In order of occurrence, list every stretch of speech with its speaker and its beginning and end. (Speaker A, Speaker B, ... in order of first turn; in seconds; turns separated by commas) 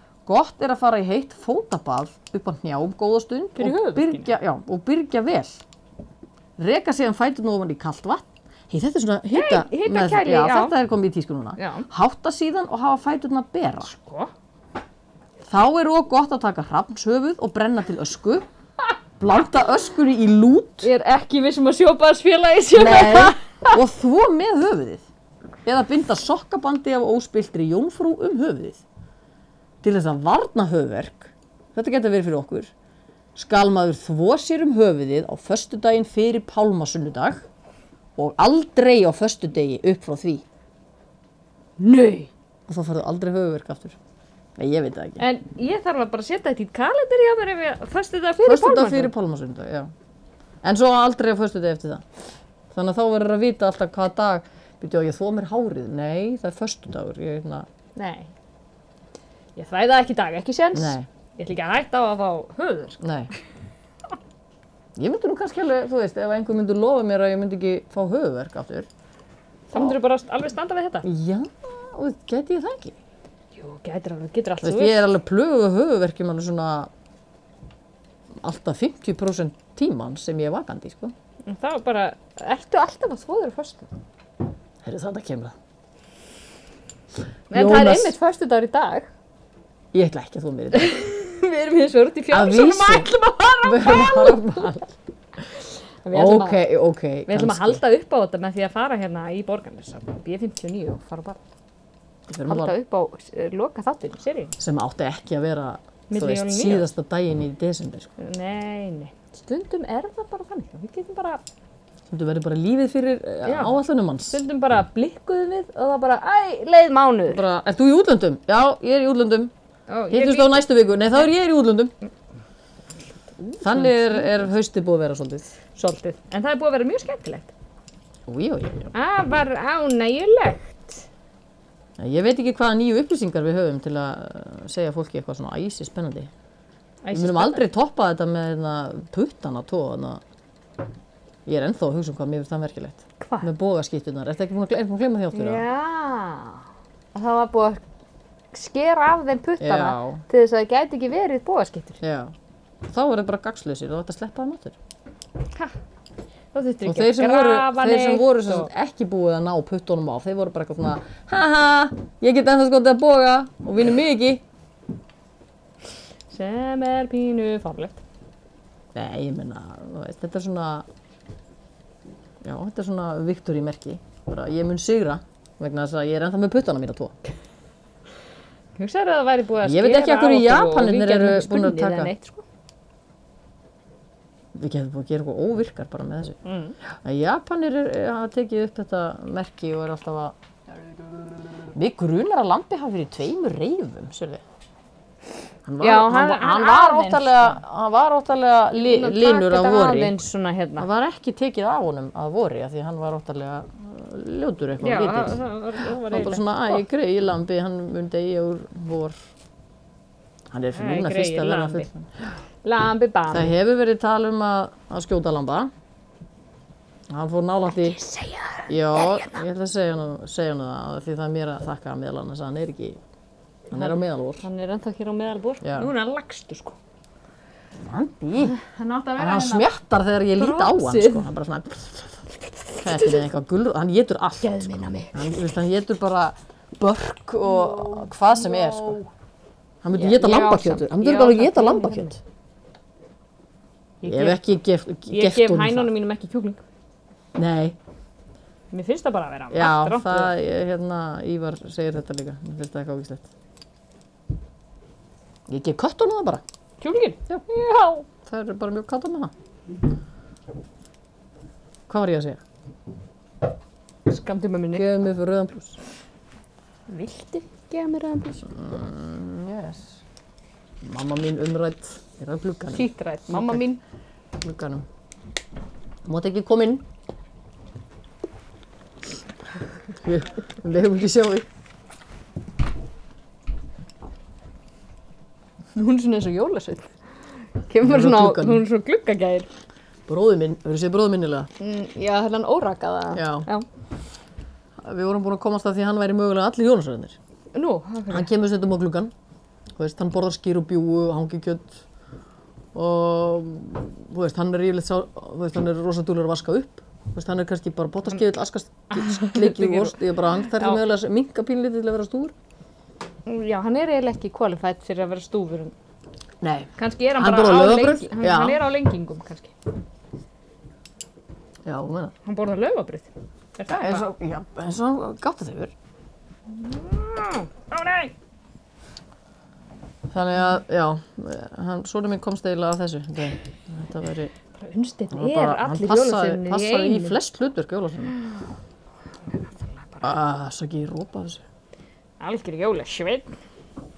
Speaker A: 0.2-5.6, Speaker B: 3.6-4.3, Speaker A: 6.6-13.9, Speaker B: 9.3-10.7, Speaker B: 11.6-11.9, Speaker B: 13.8-14.3, Speaker A: 15.4-18.4, Speaker A: 19.2-20.9, Speaker B: 20.8-23.8, Speaker A: 22.7-25.0, Speaker A: 25.6-28.8, Speaker A: 29.8-32.7, Speaker A: 33.3-37.4, Speaker A: 38.1-40.4, Speaker B: 41.8-42.3, Speaker A: 42.7-44.0, Speaker A: 44.6-45.2, Speaker B: 45.2-49.1, Speaker A: 48.4-49.9, Speaker A: 50.6-52.0, Speaker A: 52.7-57.7, Speaker B: 58.0-58.3, Speaker B: 59.5-63.0, Speaker A: 60.7-61.1, Speaker A: 63.0-63.3, Speaker A: 65.0-68.9, Speaker B: 69.7-71.1, Speaker A: 71.0-73.0, Speaker B: 73.5-75.1, Speaker A: 74.6-76.9, Speaker A: 78.4-81.1, Speaker B: 81.5-83.9, Speaker A: 84.8-85.5, Speaker A: 87.5-88.2, Speaker B: 87.5-89.1, Speaker A: 89.9-90.9, Speaker B: 90.7-94.7, Speaker A: 92.3-93.1, Speaker A: 93.6-94.9, Speaker B: 96.0-96.6, Speaker A: 96.1-97.8, Speaker B: 97.3-101.4, Speaker A: 102.3-102.7, Speaker B: 102.5-104.5, Speaker A: 104.6-108.1, Speaker B: 106.1-106.8, Speaker B: 108.2-111.4, Speaker A: 112.1-114.4, Speaker B: 113.4-117.4, Speaker A: 117.3-119.5, Speaker B: 119.9-121.2, Speaker A: 120.1-121.9, Speaker B: 123.4-124.3, Speaker A: 123.6-125.5, Speaker B: 125.8-127.5, Speaker A: 128.3-128.9, Speaker B: 128.9-131.1, Speaker A: 132.0-136.3, Speaker B: 137.0-137.7, Speaker A: 137.1-140.2, Speaker A: 141.4-145.6, Speaker B: 143.2-143.5, Speaker B: 145.3-147.8, Speaker B: 148.5-152.0, Speaker A: 149.6-150.2, Speaker A: 152.0-152.3, Speaker A: 152.8-154.8, Speaker B: 156.5-158.7, Speaker A: 156.8-164.4, Speaker B: 166.3-168.0, Speaker A: 168.9-170.8, Speaker A: 172.4-177.2, Speaker B: 178.8-182.4, Speaker A: 179.6-182.1, Speaker A: 184.5-186.4, Speaker B: 186.4-186.8, Speaker A: 186.9-190.3, Speaker A: 191.7-194.4, Speaker A: 195.6-200.2, Speaker B: 195.8-197.6, Speaker B: 198.8-200.9, Speaker A: 200.8-209.2, Speaker B: 204.8-206.8, Speaker A: 210.5-212.3, Speaker B: 210.7-211.9, Speaker B: 212.6-213.5, Speaker A: 213.3-215.7, Speaker A: 217.1-218.0, Speaker B: 217.7-219.4, Speaker A: 218.7-223.0, Speaker A: 223.7-224.4, Speaker B: 223.7-226.8, Speaker A: 225.6-225.9, Speaker A: 227.8-228.5, Speaker B: 228.4-229.7, Speaker A: 229.2-232.2, Speaker B: 230.4-231.3, Speaker A: 232.8-234.6, Speaker B: 232.8-233.2, Speaker B: 234.4-235.3, Speaker A: 235.1-239.0, Speaker B: 237.5-239.1, Speaker A: 239.8-242.2, Speaker B: 239.9-242.2, Speaker B: 244.0-244.4, Speaker A: 244.1-245.9, Speaker B: 245.1-246.6, Speaker A: 247.3-247.8, Speaker B: 248.7-250.3, Speaker A: 249.5-253.3, Speaker A: 255.5-256.4, Speaker B: 256.8-258.1, Speaker A: 258.2-259.3, Speaker A: 261.9-262.4, Speaker B: 264.1-264.9, Speaker A: 264.7-265.8, Speaker B: 266.9-268.5, Speaker A: 268.5-270.0, Speaker A: 270.8-273.6, Speaker B: 272.7-273.8, Speaker A: 274.4-274.9, Speaker A: 276.0-276.8, Speaker A: 280.0-281.5, Speaker B: 285.7-286.9, Speaker B: 287.6-289.5, Speaker A: 287.8-288.6, Speaker A: 290.1-291.5, Speaker B: 291.6-293.6, Speaker A: 293.1-293.5, Speaker A: 294.8-297.2, Speaker B: 297.5-298.3, Speaker A: 298.1-299.1, Speaker A: 299.8-301.8, Speaker A: 302.7-312.3, Speaker B: 308.9-310.0, Speaker B: 310.5-310.8, Speaker B: 313.2-315.7, Speaker A: 316.4-318.6, Speaker B: 316.8-319.5, Speaker A: 321.6-322.1, Speaker B: 322.2-324.1, Speaker A: 323.7-325.7, Speaker B: 326.5-328.1, Speaker A: 330.1-334.3, Speaker B: 334.6-337.2, Speaker A: 335.1-338.2, Speaker B: 339.7-340.1, Speaker A: 340.0-341.4, Speaker B: 342.2-343.3